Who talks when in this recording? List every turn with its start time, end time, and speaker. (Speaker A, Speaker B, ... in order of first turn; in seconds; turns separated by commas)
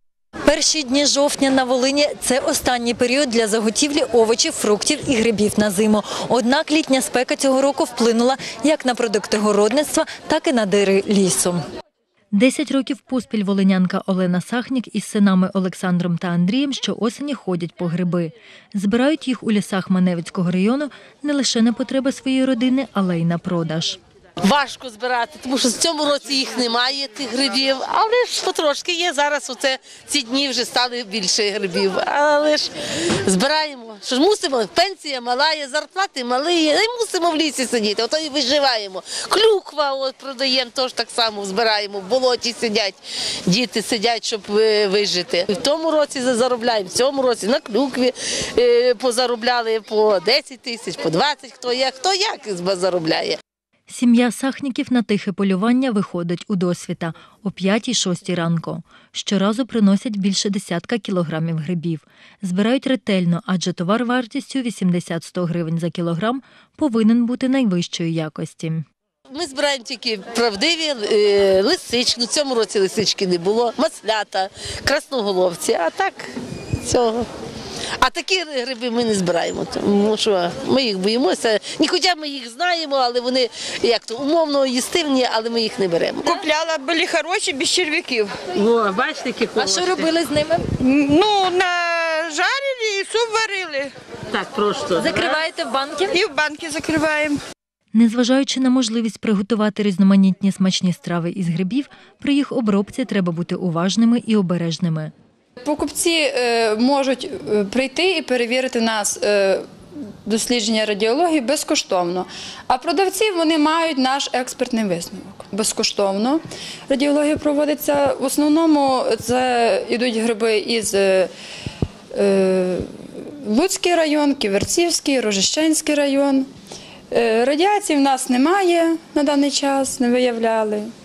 Speaker A: 0.5-11.6, Speaker A: 12.3-24.0, Speaker B: 24.4-32.7, Speaker B: 33.2-53.4, Speaker A: 53.9-68.9, Speaker B: 69.3-76.3, Speaker B: 76.8-77.3, Speaker B: 78.0-86.4, Speaker C: 86.4-88.3, Speaker B: 88.5-90.1, Speaker A: 89.6-90.7, Speaker C: 91.1-93.9, Speaker B: 94.3-95.2, Speaker A: 95.0-96.2, Speaker C: 96.1-97.4, Speaker A: 97.9-105.1, Speaker D: 105.6-109.7, Speaker D: 110.3-121.3, Speaker D: 122.1-126.5, Speaker D: 127.1-130.9